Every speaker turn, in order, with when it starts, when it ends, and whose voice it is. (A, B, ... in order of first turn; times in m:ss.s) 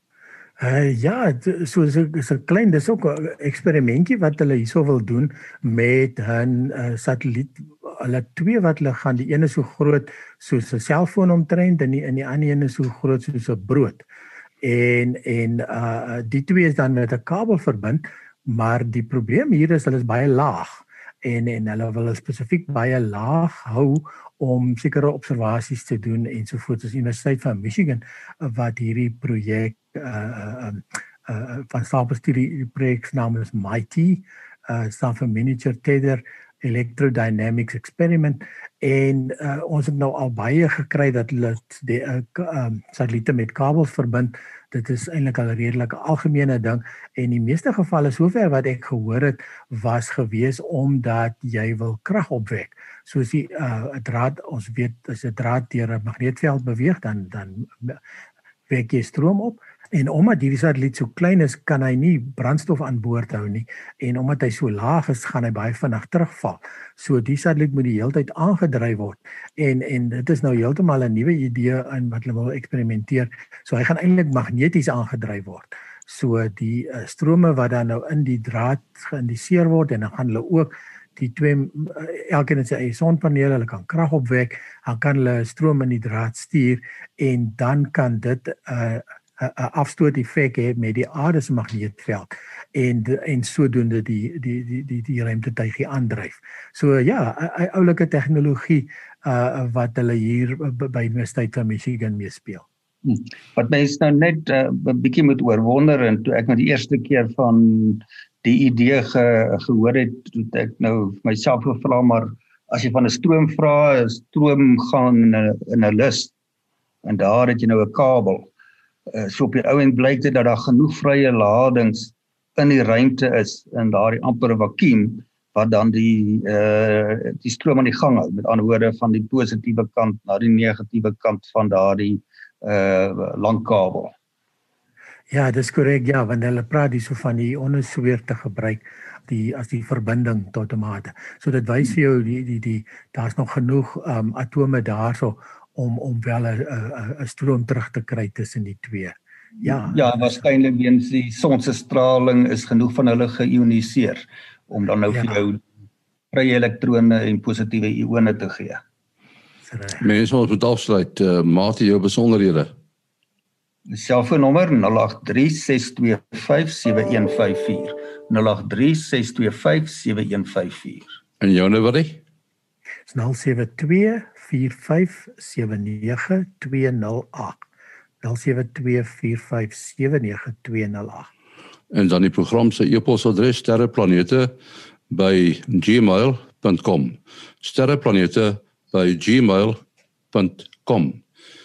0:00.6-0:14.0 A
0:14.6-0:58.0 A
0:58.7-1:42.6 A
1:43.0-1:56.3 B
1:57.0-1:58.5 B
1:59.1-2:14.1 B
2:15.3-2:30.4 A
2:29.6-2:35.6 B
2:35.1-2:35.4 A
2:36.3-2:38.8 B
2:39.6-2:40.0 A
2:40.0-2:42.7 C
2:43.9-2:51.1 B
2:51.4-2:52.2 C
2:53.1-2:57.6 A
2:58.2-3:01.3 A
3:01.9-3:04.5 C
3:05.1-3:09.8 C
3:10.3-3:11.2 C